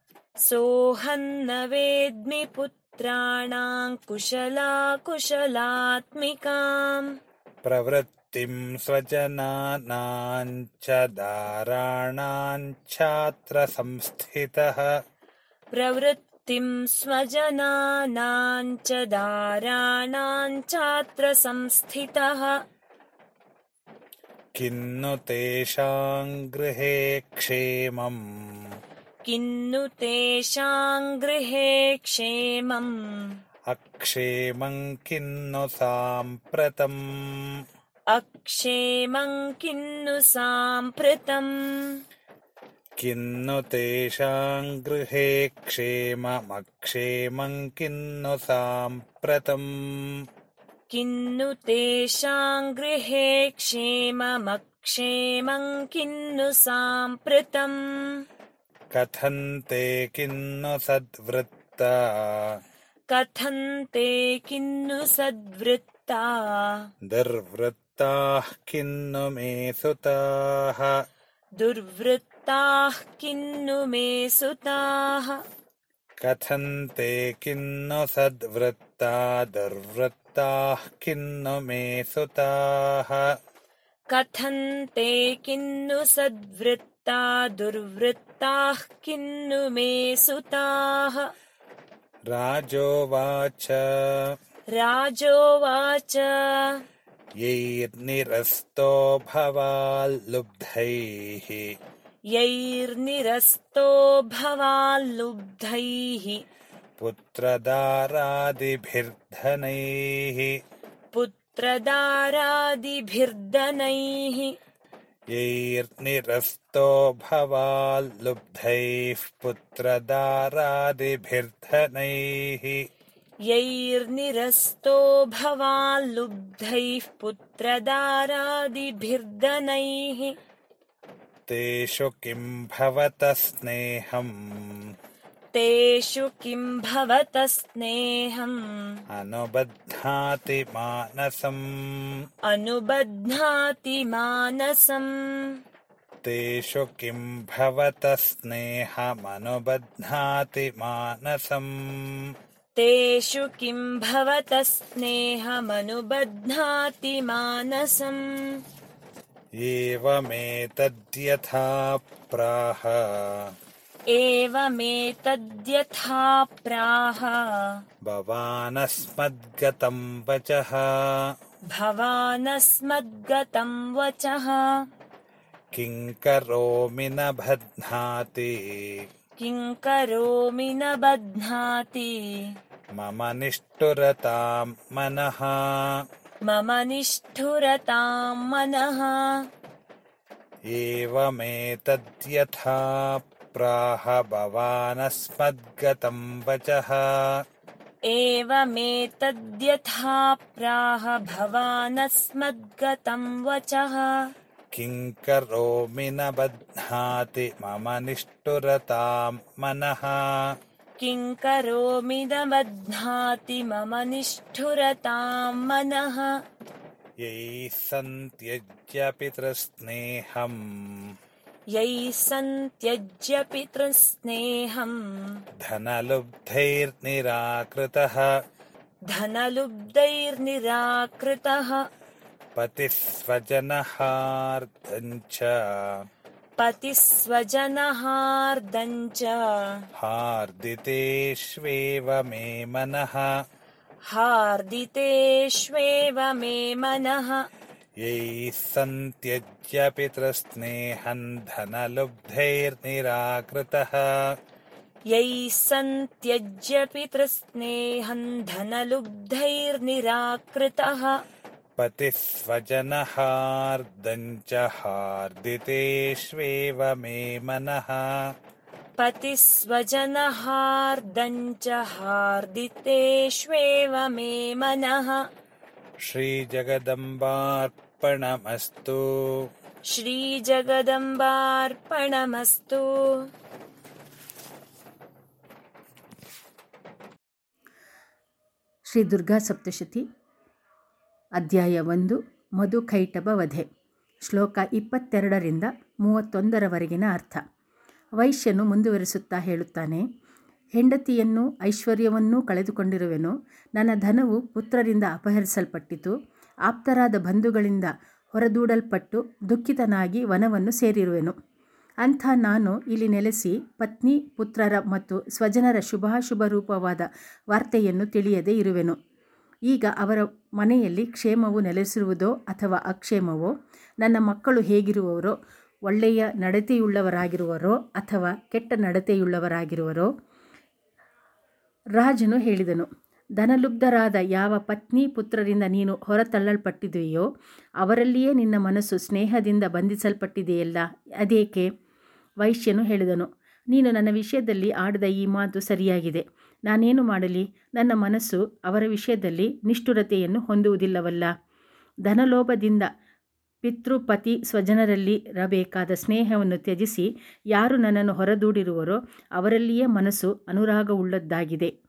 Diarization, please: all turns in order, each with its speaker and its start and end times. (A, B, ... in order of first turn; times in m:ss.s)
0:00.4-0:07.1 A
0:07.6-0:14.9 B
0:15.7-0:22.6 A
0:24.6-0:28.2 B
0:29.2-0:33.4 A
0:33.7-0:37.0 B
0:38.1-0:42.0 A
0:43.0-0:49.7 B
0:50.9-0:58.2 A
0:58.9-1:02.6 B
1:03.1-1:06.8 A
1:07.1-1:10.9 B
1:11.6-1:15.4 A
1:16.2-1:23.3 B
1:24.1-1:31.3 A
1:32.3-1:34.3 B
1:34.7-1:36.8 A
1:37.4-1:41.7 B
1:42.3-1:46.4 A
1:47.0-1:50.6 B
1:51.1-1:54.5 A
1:55.3-2:02.8 B
2:03.4-2:10.3 A
2:11.5-2:14.9 B
2:15.5-2:19.0 A
2:19.1-2:22.1 B
2:22.5-2:25.6 A
2:26.2-2:32.3 B
2:32.7-2:38.6 A
2:39.6-2:43.3 B
2:44.1-2:47.8 A
2:48.0-2:50.9 B
2:51.7-2:54.6 A
2:55.7-2:59.0 B
2:59.4-3:02.4 A
3:02.9-3:05.6 B
3:06.4-3:09.3 A
3:10.7-3:17.0 B
3:18.0-3:24.3 A
3:24.7-3:30.2 B
3:31.0-3:36.3 A
3:37.2-3:41.1 B
3:41.7-3:45.4 A
3:45.6-3:48.3 B
3:49.1-3:51.8 A
3:52.6-3:55.6 B
3:56.6-3:59.8 A
4:00.0-4:03.3 B
4:04.0-4:07.4 A
4:08.0-4:14.0 B
4:15.1-4:21.2 A
4:21.8-4:28.0 B
4:29.0-4:35.2 A
4:36.0-4:39.0 B
4:39.9-4:43.2 A
4:48.9-4:50.0 C
4:51.4-4:53.6 C
4:54.2-4:57.4 C
4:58.2-5:00.0 C
5:00.8-5:06.1 C
5:06.7-5:11.3 C
5:12.0-5:18.9 C
5:19.7-5:23.5 C
5:24.0-5:25.3 C
5:25.9-5:30.1 C
5:32.0-5:32.9 C
5:33.4-5:37.3 C
5:37.8-5:41.7 C
5:42.4-5:51.3 C
5:52.1-5:52.9 C
5:53.6-6:01.7 C